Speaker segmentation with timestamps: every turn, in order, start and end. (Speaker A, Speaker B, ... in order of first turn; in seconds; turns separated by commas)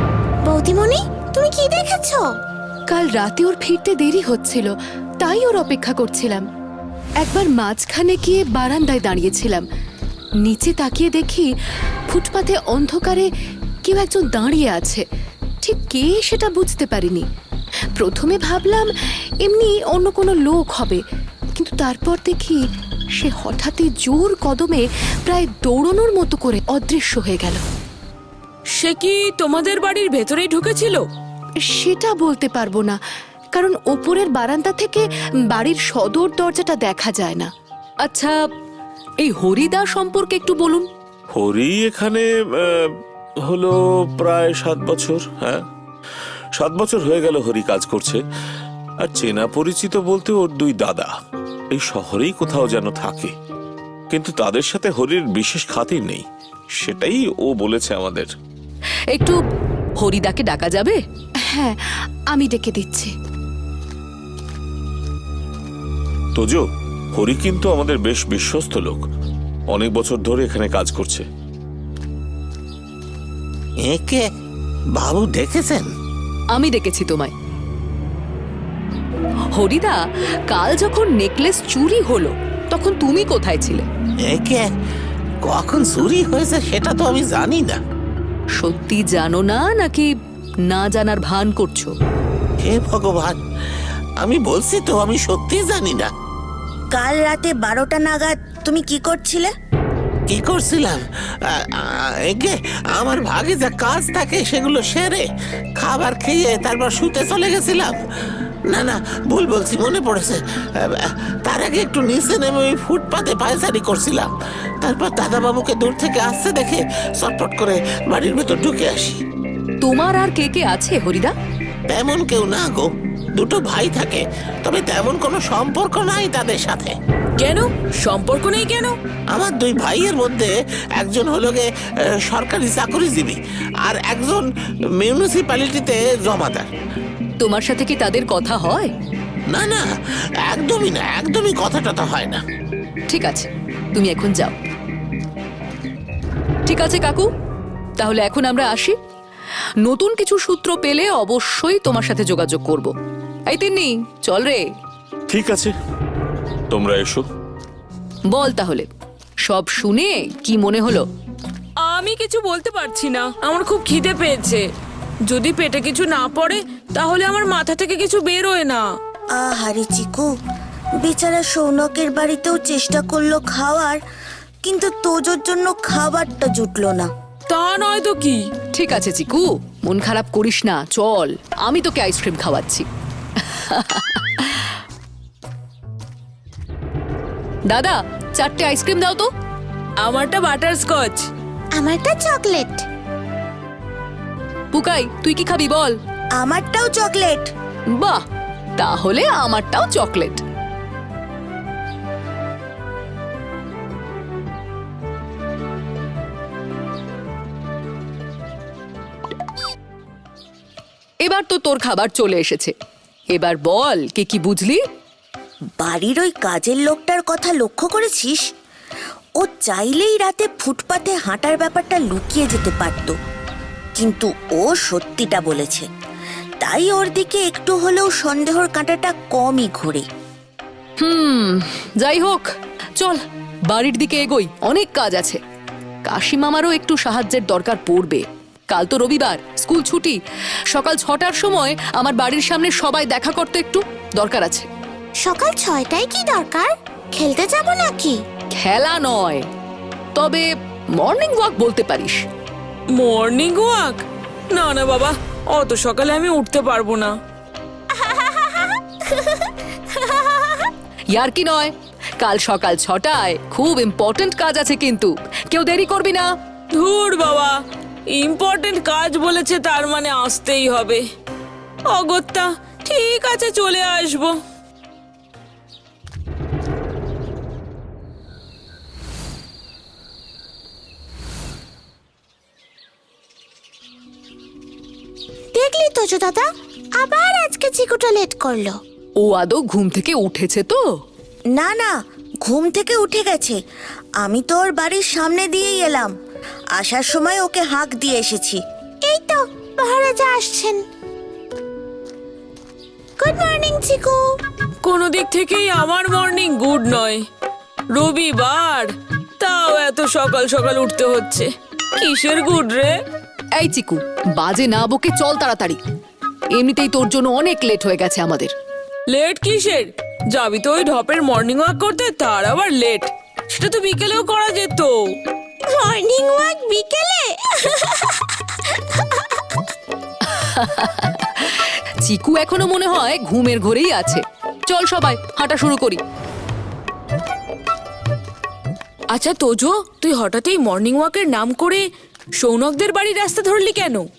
Speaker A: 0.5-2.3, Speaker B: 2.9-6.5, Speaker B: 7.2-9.7, Speaker B: 10.4-11.5, Speaker B: 12.1-13.3, Speaker B: 13.8-15.0, Speaker B: 15.6-17.3, Speaker B: 18.0-18.9, Speaker B: 19.4-21.0, Speaker B: 21.6-22.6, Speaker B: 23.2-27.6, Speaker C: 28.8-31.0, Speaker B: 31.6-33.0, Speaker B: 33.5-37.5, Speaker B: 38.0-38.4, Speaker B: 39.2-40.9, Speaker D: 41.4-45.6, Speaker D: 46.5-48.2, Speaker D: 49.0-51.1, Speaker D: 51.7-53.3, Speaker D: 54.1-56.2, Speaker D: 56.8-58.3, Speaker B: 60.0-61.8, Speaker B: 62.3-63.1, Speaker D: 66.4-69.1, Speaker D: 69.7-71.3, Speaker E: 73.8-74.3, Speaker E: 75.0-75.9, Speaker B: 76.5-77.3, Speaker B: 79.6-80.0, Speaker B: 80.5-83.8, Speaker E: 84.2-84.7, Speaker E: 85.5-87.8, Speaker B: 88.6-90.1, Speaker B: 90.7-91.9, Speaker E: 92.6-93.4, Speaker E: 94.2-96.1, Speaker F: 96.9-99.5, Speaker E: 100.3-105.3, Speaker E: 105.8-108.0, Speaker E: 108.7-114.3, Speaker E: 114.8-119.2, Speaker B: 119.8-121.3, Speaker E: 121.9-127.0, Speaker C: 127.4-128.9, Speaker E: 129.3-131.7, Speaker E: 132.2-136.7, Speaker B: 137.4-138.9, Speaker E: 139.5-139.9, Speaker E: 140.4-142.4, Speaker B: 143.1-144.6, Speaker B: 146.7-147.3, Speaker B: 148.0-148.9, Speaker B: 149.8-152.9, Speaker B: 153.5-154.7, Speaker D: 155.3-155.7, Speaker D: 156.7-157.2, Speaker B: 158.3-158.9, Speaker B: 159.5-161.1, Speaker C: 161.8-164.7, Speaker C: 165.3-168.9, Speaker F: 169.3-170.3, Speaker F: 171.0-174.0, Speaker F: 174.6-177.1, Speaker C: 177.5-178.4, Speaker B: 178.8-182.9, Speaker B: 183.5-184.7, Speaker B: 187.7-189.3, Speaker C: 190.0-191.3, Speaker A: 191.8-192.9, Speaker B: 194.7-196.0, Speaker F: 196.4-197.5, Speaker B: 197.9-198.2, Speaker B: 198.8-200.4, Speaker B: 211.2-212.7, Speaker B: 213.3-214.8, Speaker F: 215.8-218.4, Speaker F: 219.4-223.2, Speaker F: 224.0-225.9, Speaker F: 226.6-230.1, Speaker B: 231.0-235.4, Speaker B: 236.1-240.2, Speaker B: 240.7-244.7, Speaker A: 245.2-248.2, Speaker B: 248.6-249.5, Speaker B: 250.2-250.5, Speaker B: 251.0-252.2, Speaker C: 252.9-257.1, Speaker A: 257.9-260.7, Speaker B: 261.1-266.3, Speaker C: 266.8-267.6, Speaker C: 268.1-271.0, Speaker C: 271.9-274.4, Speaker A: 285.5-286.5, Speaker A: 287.0-288.8, Speaker B: 289.2-290.8, Speaker F: 291.5-293.6, Speaker F: 294.2-296.1, Speaker F: 296.8-298.6, Speaker A: 299.0-300.8, Speaker A: 303.2-304.2, Speaker C: 304.9-307.2, Speaker C: 307.9-312.9, Speaker B: 313.6-315.8, Speaker B: 316.6-318.5, Speaker C: 319.1-324.9, Speaker A: 325.7-329.6, Speaker B: 330.2-336.0, Speaker C: 339.1-341.8, Speaker C: 342.4-344.1